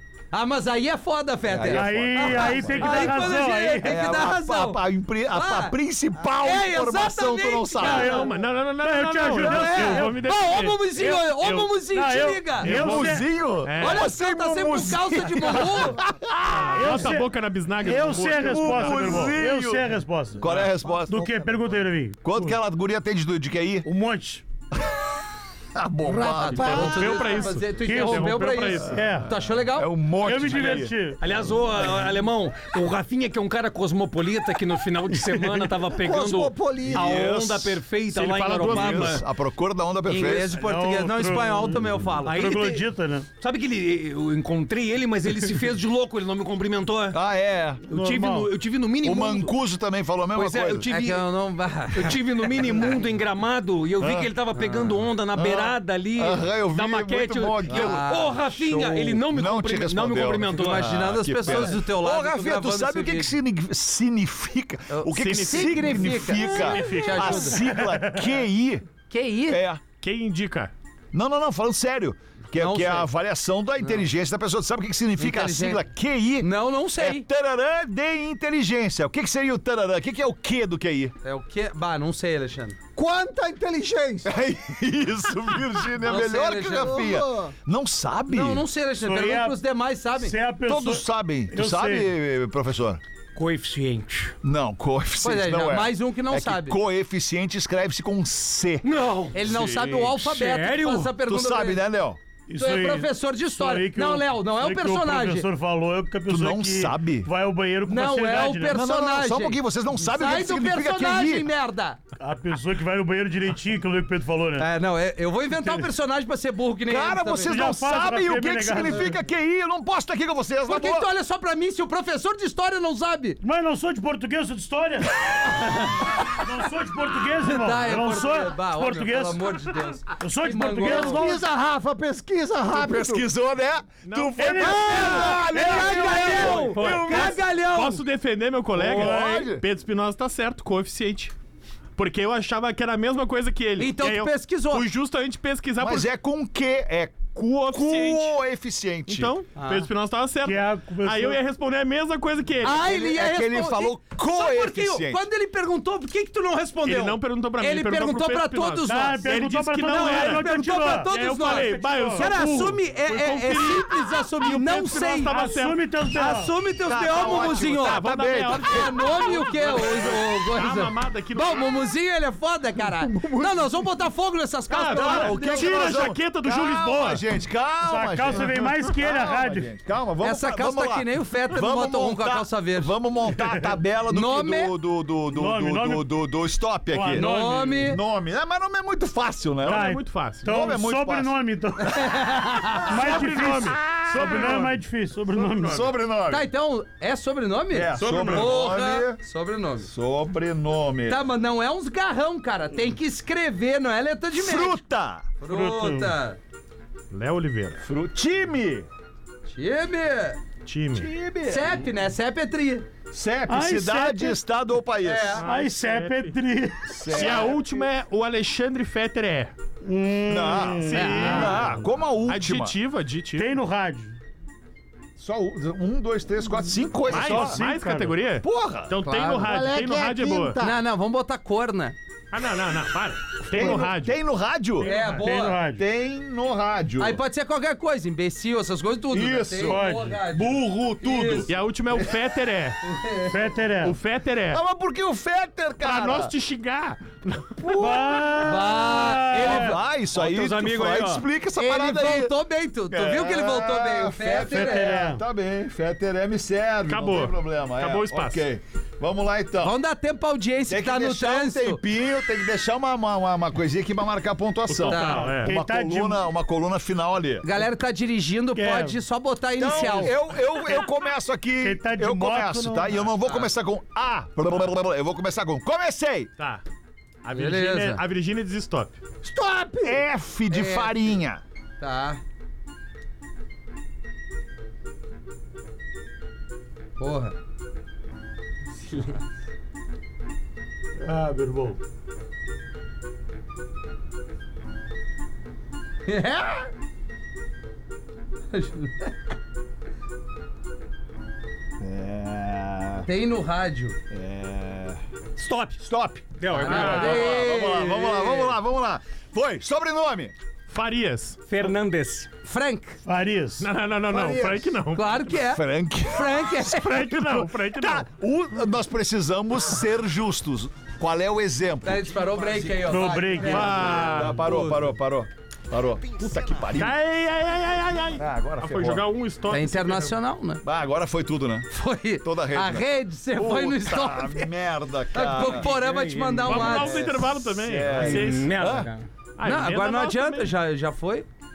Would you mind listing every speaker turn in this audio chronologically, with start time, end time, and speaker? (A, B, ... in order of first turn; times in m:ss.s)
0:00.3-0:08.3 A
0:01.5-0:08.2 B
0:01.7-0:04.0 C
0:02.5-0:03.3 D
0:07.8-0:10.2 C
0:08.0-0:11.6 D
0:09.2-0:12.7 A
0:11.9-0:13.3 C
0:12.6-0:14.1 D
0:12.6-0:17.1 B
0:13.8-0:16.0 A
0:16.5-0:19.4 D
0:16.7-0:17.3 C
0:17.8-0:22.6 C
0:18.4-0:21.3 B
0:20.4-0:20.7 D
0:22.2-0:23.9 B
0:23.8-0:24.4 C
0:25.7-0:27.2 B
0:26.0-0:29.9 A
0:26.5-0:29.0 D
0:27.8-0:29.3 C
0:29.7-0:31.0 B
0:30.2-0:31.2 C
0:31.2-0:39.2 E
0:35.2-0:35.7 C
0:36.0-0:37.3 F
0:36.8-0:37.8 B
0:38.1-0:39.2 D
0:38.6-0:40.5 B
0:40.0-0:42.5 A
0:40.5-0:43.3 C
0:42.2-0:42.9 E
0:43.4-0:47.2 E
0:47.1-0:47.8 B
0:47.8-0:48.5 C
0:47.9-0:49.5 E
0:49.0-0:50.9 B
0:50.3-0:51.2 E
0:50.8-0:52.2 A
0:51.9-1:01.0 E
0:54.0-0:54.3 B
0:54.5-0:54.9 A
0:55.3-1:08.8 B
0:57.7-0:58.4 A
1:00.5-1:03.3 A
1:04.9-1:07.6 A
1:05.2-1:07.6 D
1:07.8-1:08.2 C
1:09.1-1:09.6 A
1:09.5-1:09.8 B
1:10.0-1:10.7 D
1:11.1-1:21.1 B
1:12.5-1:13.1 A
1:15.2-1:15.8 A
1:16.4-1:17.3 A
1:21.2-1:22.8 A
1:23.0-1:24.3 F
1:24.2-1:28.6 B
1:26.0-1:27.0 A
1:26.8-1:27.5 F
1:28.3-1:30.4 A
1:29.0-1:29.6 C
1:30.2-1:32.1 C
1:30.6-1:33.0 B
1:33.3-1:34.3 E
1:34.4-1:40.1 B
1:35.2-1:36.8 A
1:38.8-1:39.4 E
1:39.3-1:41.8 A
1:40.1-1:41.1 E
1:41.2-1:42.2 B
1:42.5-1:48.8 C
1:42.6-1:45.5 A
1:46.3-1:47.3 B
1:47.9-1:52.0 A
1:48.7-1:51.5 B
1:52.2-1:54.7 C
1:54.6-1:57.7 A
1:56.8-2:01.1 B
1:57.4-1:59.2 C
2:00.6-2:03.4 A
2:03.4-2:11.4 C
2:07.4-2:11.2 A
2:10.8-2:13.2 F
2:12.7-2:17.4 B
2:14.0-2:14.8 D
2:14.4-2:16.7 C
2:14.6-2:18.0 A
2:16.5-2:17.4 E
2:17.6-2:21.3 D
2:18.7-2:19.6 B
2:22.0-2:26.1 D
2:23.8-2:24.8 A
2:25.8-2:29.3 B
2:27.3-2:28.3 D
2:29.1-2:32.8 D
2:29.6-2:29.9 A
2:30.4-2:31.4 C
2:32.6-2:39.3 A
2:32.6-2:35.2 B
2:36.8-2:45.8 D
2:38.8-2:42.3 C
2:39.8-2:45.3 A
2:45.3-2:46.5 C
2:46.1-2:48.0 A
2:46.8-2:48.9 B
2:47.3-2:51.7 D
2:48.6-2:55.8 A
2:52.8-2:53.8 B
2:54.7-2:57.2 D
2:54.9-3:09.9 B
2:57.8-2:59.7 C
3:00.2-3:02.9 A
3:04.1-3:04.7 A
3:05.3-3:06.0 C
3:06.9-3:07.9 C
3:07.1-3:08.0 A
3:09.6-3:10.5 D
3:09.6-3:12.3 C
3:10.4-3:11.3 B
3:11.8-3:12.9 A
3:12.8-3:15.9 C
3:12.9-3:14.8 D
3:13.8-3:14.5 B
3:15.3-3:15.8 D
3:15.6-3:16.5 B
3:16.3-3:19.9 A
3:17.7-3:19.2 B
3:18.0-3:18.5 C
3:19.8-3:21.2 B
3:21.1-3:24.8 A
3:24.3-3:25.3 B
3:25.4-3:26.4 A
3:25.4-3:26.2 C
3:27.1-3:27.8 D
3:27.8-3:28.9 B
3:29.5-3:30.4 A
3:30.6-3:31.1 D
3:30.9-3:31.8 B
3:31.5-3:32.9 A
3:33.1-3:35.4 B
3:33.5-3:34.4 C
3:35.0-3:35.4 A
3:35.4-3:36.4 D
3:35.4-3:36.9 C
3:36.9-3:37.7 B
3:37.1-3:39.5 D
3:39.8-3:41.5 C
3:40.3-3:42.7 B
3:40.9-3:41.7 D
3:40.9-3:41.6 A
3:42.2-3:43.5 D
3:43.4-3:44.2 C
3:45.2-3:47.6 B
3:47.1-3:48.1 C
3:47.1-3:50.6 D
3:48.4-3:48.9 B
3:49.0-3:49.5 A
3:49.4-3:50.8 F
3:50.6-3:52.0 A
3:52.3-3:54.2 D
3:53.5-3:54.9 B
3:54.8-3:55.2 D
3:54.8-3:55.6 A
3:54.9-3:55.8 C
3:55.7-3:57.2 B
3:57.0-4:01.5 A
3:59.1-4:02.0 B
3:59.6-4:00.1 C
4:01.5-4:02.8 D
4:02.8-4:03.4 A
4:03.3-4:04.0 C
4:03.8-4:04.6 D
4:04.5-4:06.3 B
4:05.8-4:07.6 D
4:07.6-4:08.2 B
4:07.8-4:09.8 C
4:08.3-4:09.7 A
4:09.3-4:12.3 B
4:10.1-4:11.2 E
4:11.6-4:15.0 A
4:12.9-4:19.7 B
4:14.4-4:15.2 C
4:16.9-4:18.4 D
4:19.6-4:21.8 A
4:20.7-4:27.4 B
4:24.7-4:25.5 D
4:24.9-4:25.4 A
4:25.3-4:26.2 C
4:27.4-4:30.2 A
4:28.5-4:29.0 C
4:29.6-4:36.3 B
4:29.7-4:30.1 C
4:31.6-4:33.0 C
4:36.4-4:36.6 D
4:37.2-4:39.0 D
4:37.3-4:38.0 A
4:39.2-4:40.0 F
4:39.8-4:41.4 B
4:40.5-4:41.1 A
4:41.8-4:42.2 A
4:47.0-4:47.3 A
4:51.0-4:51.8 C
4:56.0-4:56.7 A
4:58.5-4:59.1 A
5:01.8-5:03.1 B
5:03.0-5:04.0 A
5:04.1-5:05.0 B
5:05.4-5:05.8 E
5:05.8-5:10.3 B
5:06.4-5:07.2 E
5:06.5-5:08.6 A
5:06.7-5:07.2 D
5:10.7-5:11.4 D
5:11.4-5:12.3 E
5:12.4-5:13.0 A
5:13.0-5:13.7 C
5:13.6-5:15.2 D
5:14.1-5:14.6 F
5:14.9-5:17.0 A
5:15.3-5:22.8 B
5:16.6-5:18.0 D
5:21.8-5:24.9 A
5:22.8-5:23.9 C
5:23.4-5:24.4 D
5:23.7-5:27.0 B
5:26.7-5:30.2 D
5:28.2-5:29.0 B
5:29.5-5:30.6 A
5:30.6-5:31.7 B
5:31.7-5:34.5 A
5:32.2-5:35.7 B
5:35.1-5:37.1 A
5:35.3-5:36.9 E
5:36.4-5:38.6 D
5:36.9-5:38.9 B
5:37.9-5:39.1 E
5:39.4-5:40.5 D
5:39.4-5:41.3 A